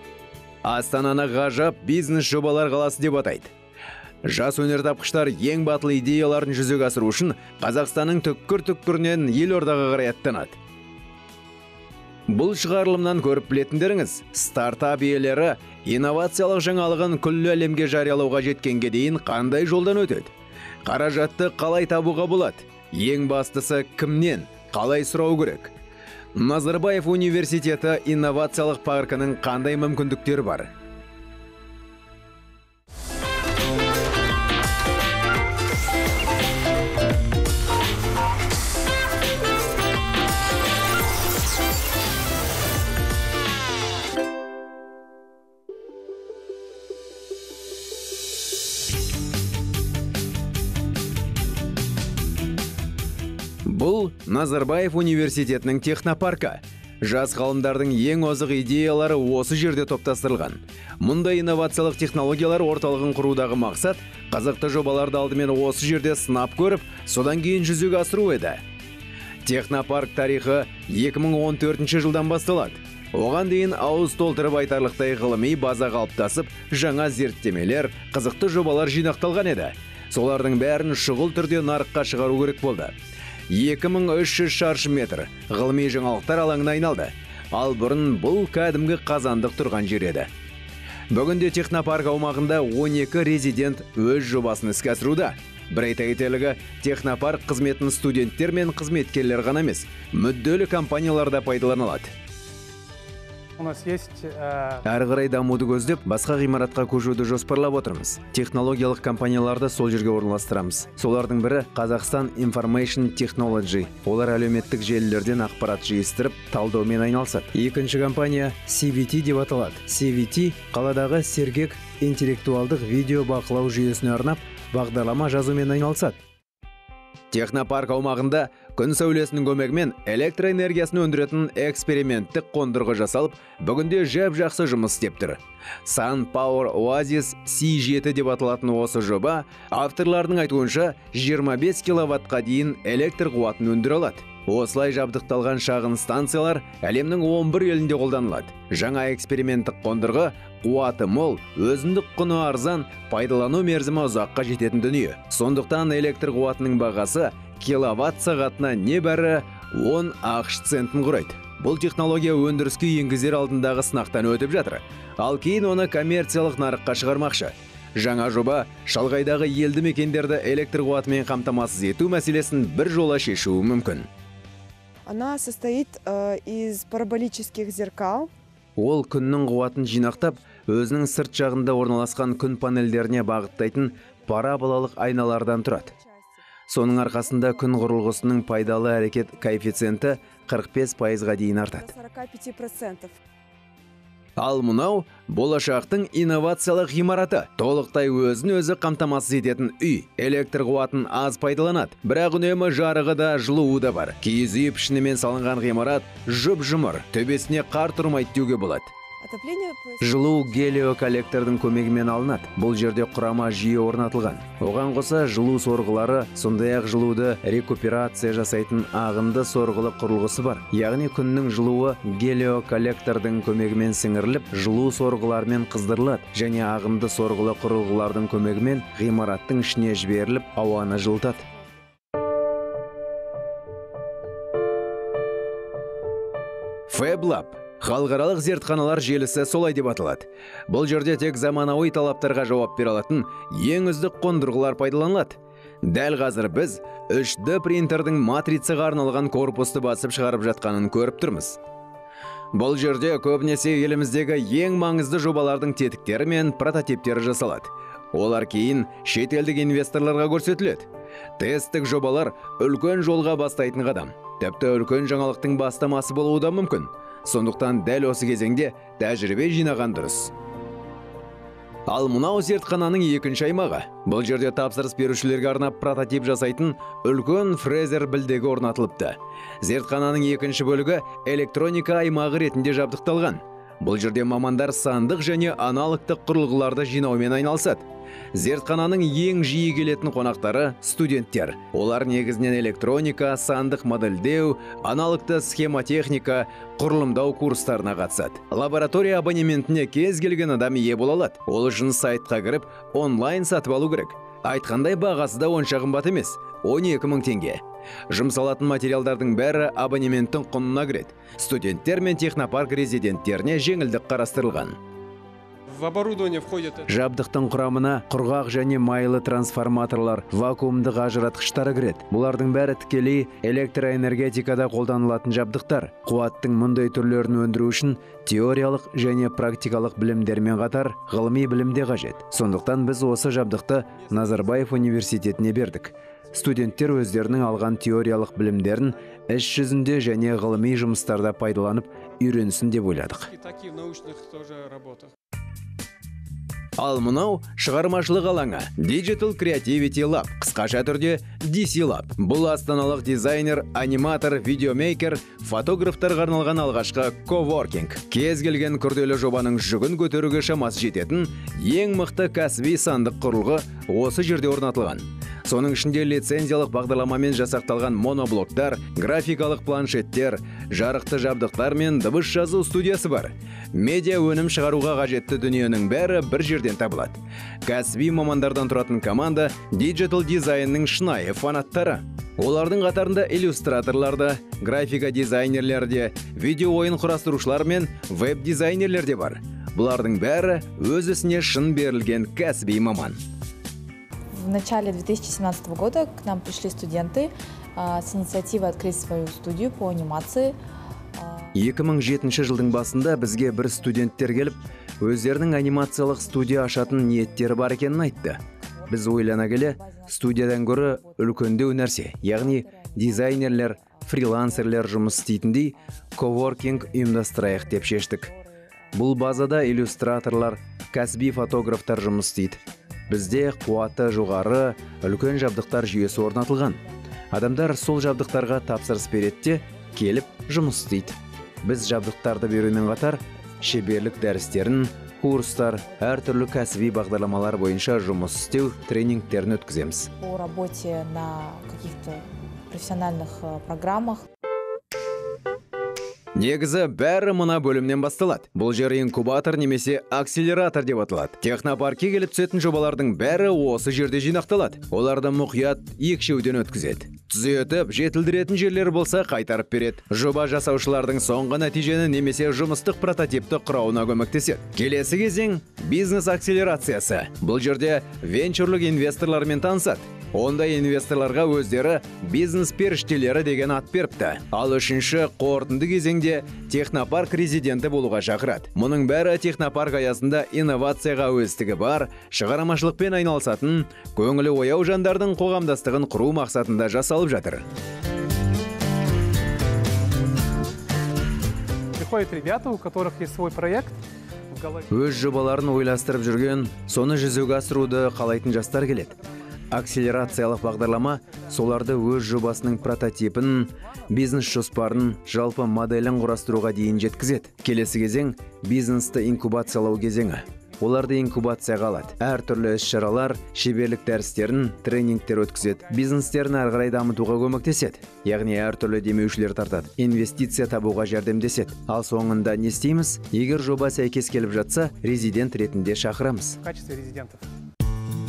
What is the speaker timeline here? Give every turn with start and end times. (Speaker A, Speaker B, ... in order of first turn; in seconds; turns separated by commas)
Speaker A: 0.6-3.5, Speaker A: 4.2-10.6, Speaker A: 12.3-20.3, Speaker A: 20.9-25.7, Speaker A: 26.4-30.7, Speaker A: 53.6-68.6, Speaker A: 69.4-82.9, Speaker A: 83.5-90.3, Speaker A: 91.1-102.1, Speaker B: 103.6-104.8, Speaker A: 104.8-126.2, Speaker A: 127.3-174.1, Speaker C: 175.1-178.3, Speaker A: 178.8-185.9, Speaker A: 186.7-191.9, Speaker C: 191.8-193.2, Speaker A: 194.4-208.9, Speaker C: 209.2-210.2, Speaker A: 210.0-231.5, Speaker A: 236.9-251.6, Speaker A: 252.5-270.3, Speaker A: 271.9-314.8, Speaker D: 315.7-316.8, Speaker A: 316.9-343.3, Speaker D: 343.3-345.1, Speaker A: 346.8-393.2, Speaker E: 394.4-400.6, Speaker E: 401.1-401.5, Speaker A: 401.5-418.3, Speaker E: 409.8-410.4, Speaker E: 412.4-413.9, Speaker E: 418.1-418.4, Speaker A: 418.9-426.8, Speaker A: 427.3-440.1, Speaker E: 440.2-444.2, Speaker A: 446.3-487.6, Speaker B: 491.9-494.9, Speaker A: 494.9-499.1, Speaker A: 499.7-526.6, Speaker B: 526.6-527.5